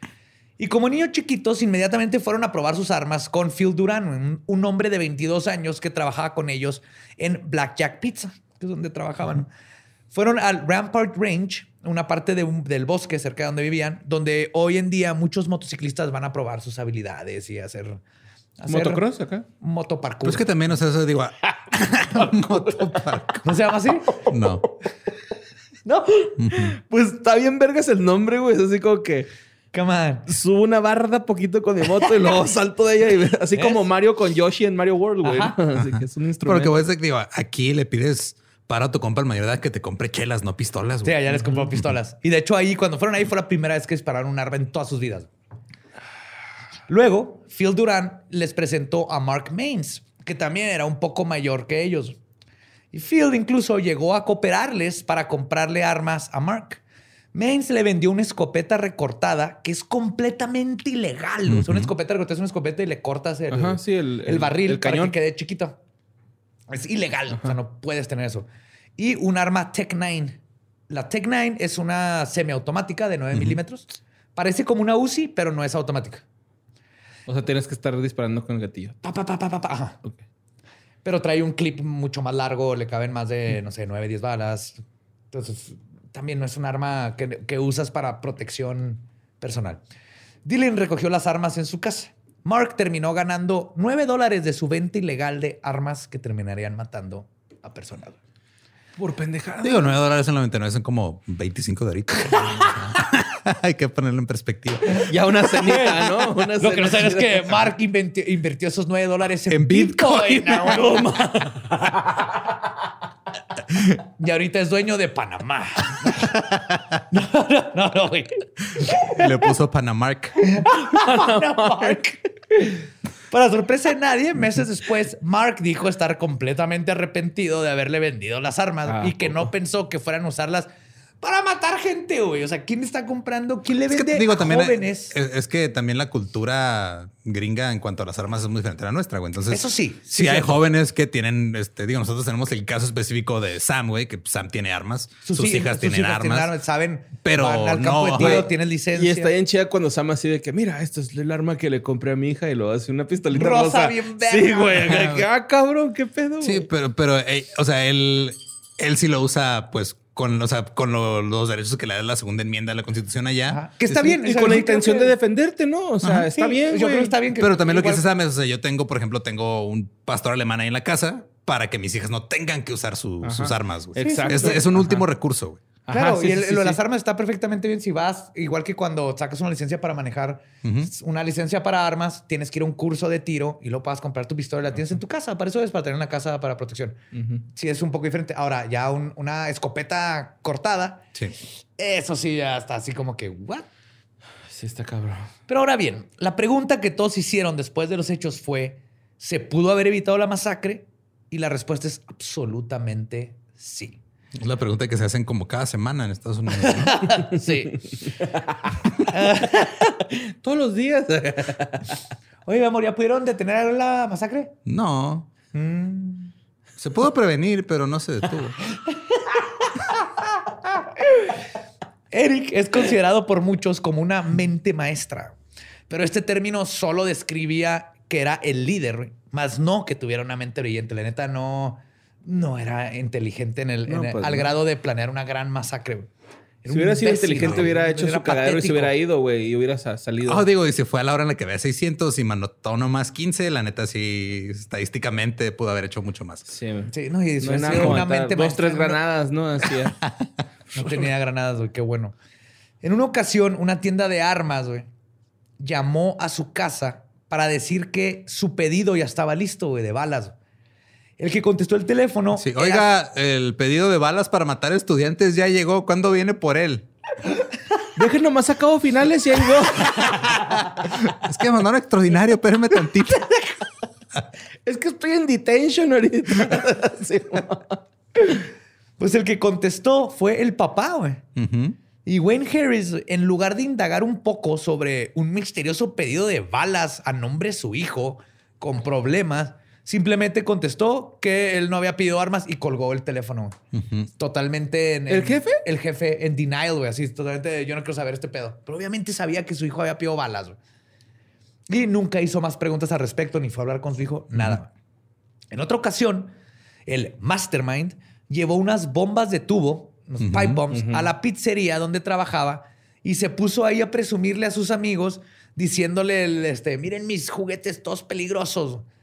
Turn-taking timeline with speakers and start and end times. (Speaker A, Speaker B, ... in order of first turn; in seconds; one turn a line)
Speaker A: 0.6-9.5
Speaker A: 10.1-18.0
Speaker A: 18.6-19.0
Speaker B: 18.7-19.4
Speaker A: 19.6-20.4
Speaker C: 20.2-23.4
Speaker B: 22.2-23.1
Speaker A: 23.4-24.2
Speaker C: 24.3-24.7
Speaker A: 25.9-26.3
Speaker B: 26.2-29.3
Speaker C: 26.4-26.8
Speaker A: 29.7-30.3
Speaker B: 30.3-36.8
Speaker A: 33.5-33.8
Speaker A: 35.2-35.6
Speaker C: 35.9-41.2
Speaker A: 41.0-45.3
Speaker A: 46.9-52.2
Speaker A: 52.9-56.8
Speaker A: 57.3-65.8
Speaker C: 61.5-61.9
Speaker B: 63.5-65.2
Speaker A: 66.7-76.2
Speaker B: 77.3-79.0
Speaker A: 79.0-80.0
Speaker A: 81.0-84.8
Speaker A: 85.3-89.8
Speaker A: 90.5-98.2
Speaker B: 99.0-100.0
Speaker C: 99.6-105.1
Speaker A: 102.4-102.8
Speaker B: 104.9-107.5
Speaker A: 105.6-111.2
Speaker C: 109.5-110.2
Speaker B: 109.8-112.3
Speaker A: 113.7-116.5
Speaker A: 117.1-119.3
Speaker C: 118.8-120.5
Speaker A: 120.4-130.7
Speaker B: 120.7-122.0
Speaker B: 128.9-129.4
Speaker A: 131.2-135.1
Speaker C: 133.9-146.5
Speaker A: 139.5-140.6
Speaker A: 145.2-149.3
Speaker C: 147.2-148.4
Speaker B: 148.2-156.7
Speaker A: 153.3-155.2
Speaker C: 156.4-163.6
Speaker A: 163.5-165.2
Speaker B: 163.9-167.1
Speaker C: 166.0-166.3
Speaker A: 166.3-168.1
Speaker C: 167.4-175.6
Speaker B: 173.2-175.0
Speaker A: 174.0-174.8
Speaker B: 175.9-176.8
Speaker A: 175.9-187.0
Speaker C: 180.6-180.9
Speaker B: 187.1-187.4
Speaker A: 187.5-191.1
Speaker A: 191.8-193.7
Speaker B: 194.5-195.3
Speaker A: 195.5-204.0
Speaker C: 204.4-207.1
Speaker A: 206.5-207.8
Speaker B: 208.1-208.7
Speaker A: 209.1-209.9
Speaker B: 209.3-212.0
Speaker A: 212.4-214.6
Speaker C: 214.7-215.3
Speaker A: 215.5-216.3
Speaker C: 216.8-218.6
Speaker A: 220.8-221.4
Speaker A: 222.1-225.4
Speaker A: 225.9-236.1
Speaker B: 233.9-234.5
Speaker A: 236.6-238.9
Speaker B: 236.7-240.5
Speaker C: 240.2-246.5
Speaker B: 246.5-250.0
Speaker A: 246.9-249.0
Speaker A: 250.7-252.2
Speaker A: 252.8-254.9
Speaker A: 255.6-260.4
Speaker A: 261.2-262.9
Speaker C: 262.4-266.9
Speaker B: 267.9-270.6
Speaker C: 270.5-273.5
Speaker B: 274.6-277.8
Speaker A: 278.2-278.4
Speaker A: 279.0-281.2
Speaker C: 281.4-281.8
Speaker A: 282.1-293.6
Speaker C: 293.7-294.1
Speaker A: 294.2-300.6
Speaker B: 295.1-295.6
Speaker A: 301.7-304.7
Speaker A: 305.5-306.3
Speaker A: 306.9-318.9
Speaker C: 310.2-310.6
Speaker B: 310.7-311.1